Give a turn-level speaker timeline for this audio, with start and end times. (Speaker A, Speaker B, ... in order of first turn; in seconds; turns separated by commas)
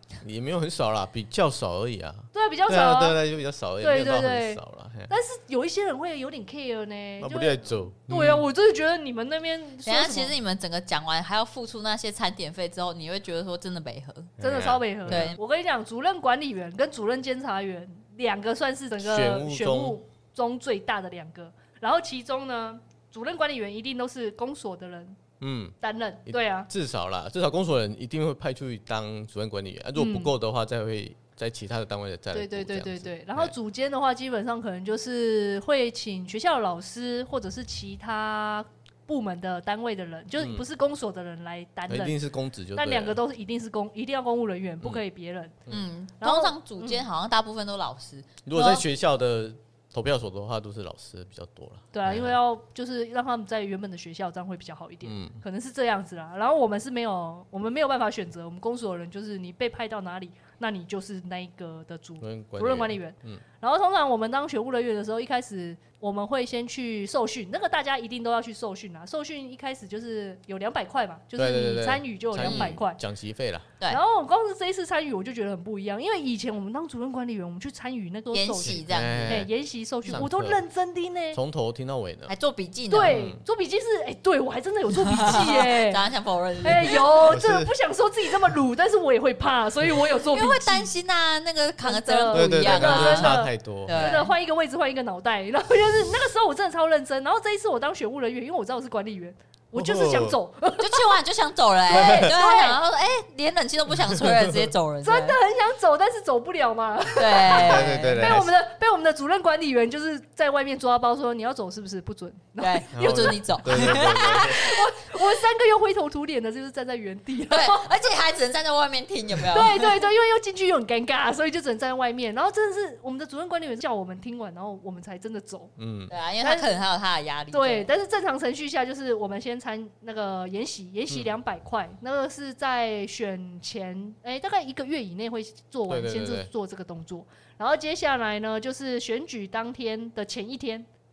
Speaker A: 0.2-5.1, Speaker B: 2.3-3.2, Speaker B: 3.8-10.3, Speaker A: 7.2-8.5, Speaker C: 9.8-14.3, Speaker A: 14.4-15.3, Speaker B: 14.4-25.2, Speaker C: 15.1-15.4, Speaker A: 19.0-20.0, Speaker A: 25.4-33.5, Speaker B: 25.8-26.7, Speaker B: 30.0-30.3, Speaker B: 32.3-42.1, Speaker A: 40.4-40.6, Speaker A: 41.9-43.2, Speaker B: 42.7-45.6, Speaker C: 45.7-48.8, Speaker B: 46.2-47.0, Speaker A: 48.4-52.4, Speaker B: 51.9-73.0, Speaker A: 55.0-55.4, Speaker A: 62.2-63.4, Speaker A: 71.3-73.7, Speaker C: 72.4-72.8, Speaker B: 73.9-81.4, Speaker C: 78.3-79.4, Speaker A: 78.6-79.5, Speaker A: 80.0-80.6, Speaker A: 81.3-82.3, Speaker C: 82.3-83.2, Speaker B: 82.9-86.0, Speaker A: 83.0-83.4, Speaker C: 85.1-87.1, Speaker B: 86.6-90.9, Speaker A: 87.3-87.7, Speaker C: 90.3-94.3, Speaker B: 91.8-101.2, Speaker A: 92.3-94.1, Speaker A: 99.7-100.3, Speaker C: 100.8-105.4, Speaker B: 101.9-102.8, Speaker A: 101.9-102.3, Speaker A: 104.0-104.7, Speaker B: 105.0-117.9, Speaker C: 107.2-108.3, Speaker A: 107.6-108.5, Speaker C: 112.6-114.8, Speaker A: 112.9-114.6, Speaker C: 117.5-120.0, Speaker B: 119.5-125.7, Speaker A: 125.8-126.1, Speaker C: 126.1-127.9, Speaker B: 126.4-126.7, Speaker B: 127.5-140.9, Speaker A: 135.9-136.5